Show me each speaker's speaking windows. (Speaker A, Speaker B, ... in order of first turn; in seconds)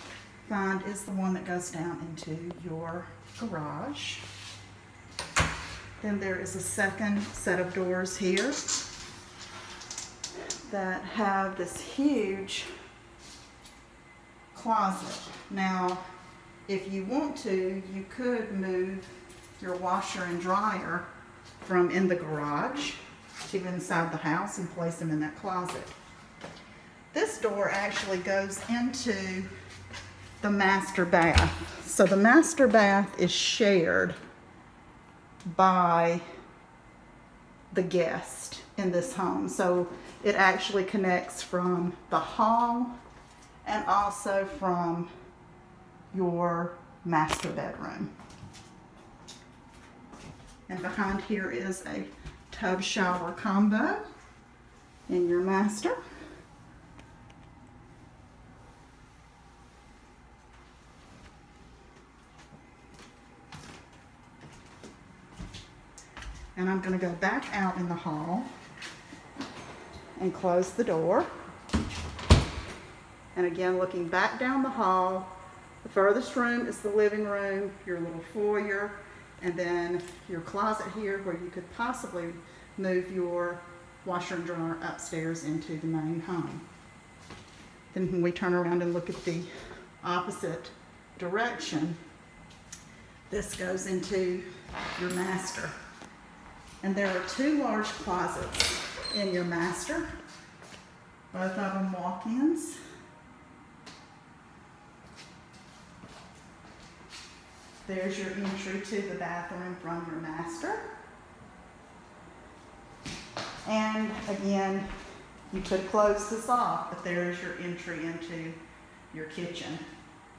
Speaker A: 0.4-4.2, 6.0-8.7, 10.7-12.7, 14.5-16.0, 16.7-21.1, 21.6-25.9, 27.1-29.5, 30.4-34.1, 35.5-36.2, 37.7-42.9, 43.6-45.1, 46.1-48.1, 50.7-54.0, 55.1-56.0, 66.5-68.5, 70.2-71.3, 73.3-75.3, 75.8-86.6, 87.9-92.0, 93.3-95.7, 96.8-100.1, 101.3-102.8, 107.8-110.8, 113.6-114.9, 115.5-118.6, 119.1-119.8